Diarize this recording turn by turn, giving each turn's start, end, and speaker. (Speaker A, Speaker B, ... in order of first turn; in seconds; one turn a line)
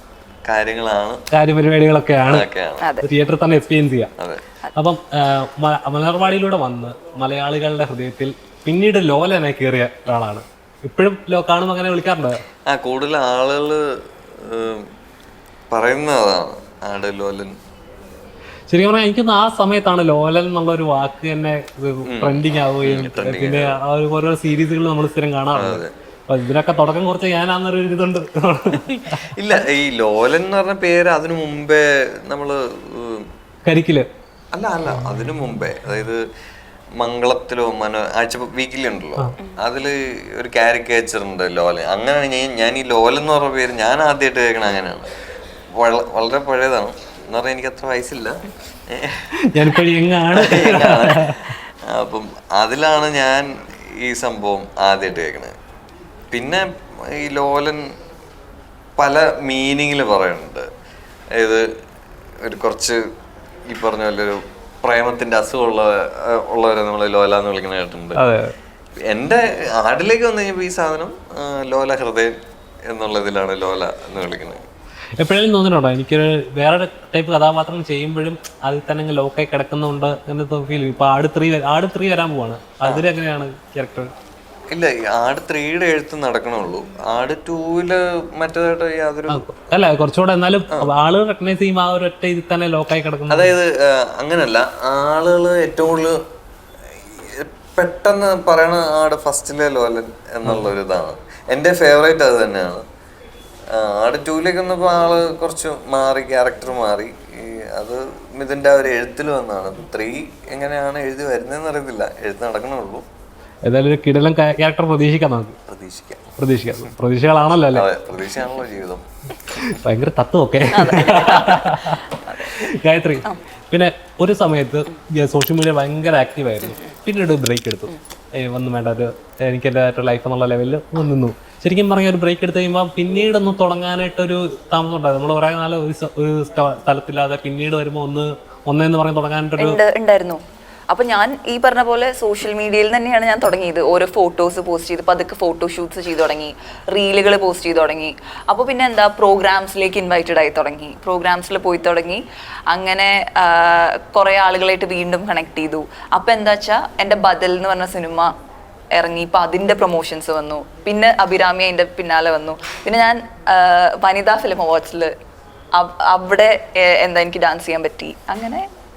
Speaker A: 0.5-1.2
Speaker B: 1.3-2.5
Speaker A: 2.3-3.0
Speaker C: 2.8-3.1
Speaker B: 3.0-4.1
Speaker A: 4.2-4.4
Speaker B: 4.8-12.4
Speaker A: 12.7-14.9
Speaker A: 15.7-17.6
Speaker B: 18.7-29.3
Speaker A: 22.1-23.8
Speaker A: 25.6-25.9
Speaker A: 28.9-33.3
Speaker B: 33.7-34.1
Speaker A: 34.5-36.3
Speaker A: 37.0-45.1
Speaker A: 45.7-49.3
Speaker B: 49.4-51.5
Speaker A: 50.3-55.5
Speaker A: 56.3-57.9
Speaker A: 59.0-60.7
Speaker A: 61.3-61.7
Speaker A: 62.4-63.0
Speaker A: 63.7-68.2
Speaker B: 68.2-68.5
Speaker A: 69.0-72.3
Speaker A: 72.9-74.7
Speaker B: 75.2-84.1
Speaker A: 84.7-89.5
Speaker B: 89.3-93.5
Speaker A: 93.3-96.2
Speaker A: 96.9-102.8
Speaker A: 103.7-113.1
Speaker B: 113.7-115.6
Speaker A: 115.7-116.9
Speaker B: 116.4-117.9
Speaker A: 117.7-119.0
Speaker B: 119.5-122.0
Speaker C: 120.7-122.6
Speaker B: 122.6-139.8
Speaker C: 139.6-158.3
Speaker C: 158.9-165.1
Speaker C: 165.8-168.7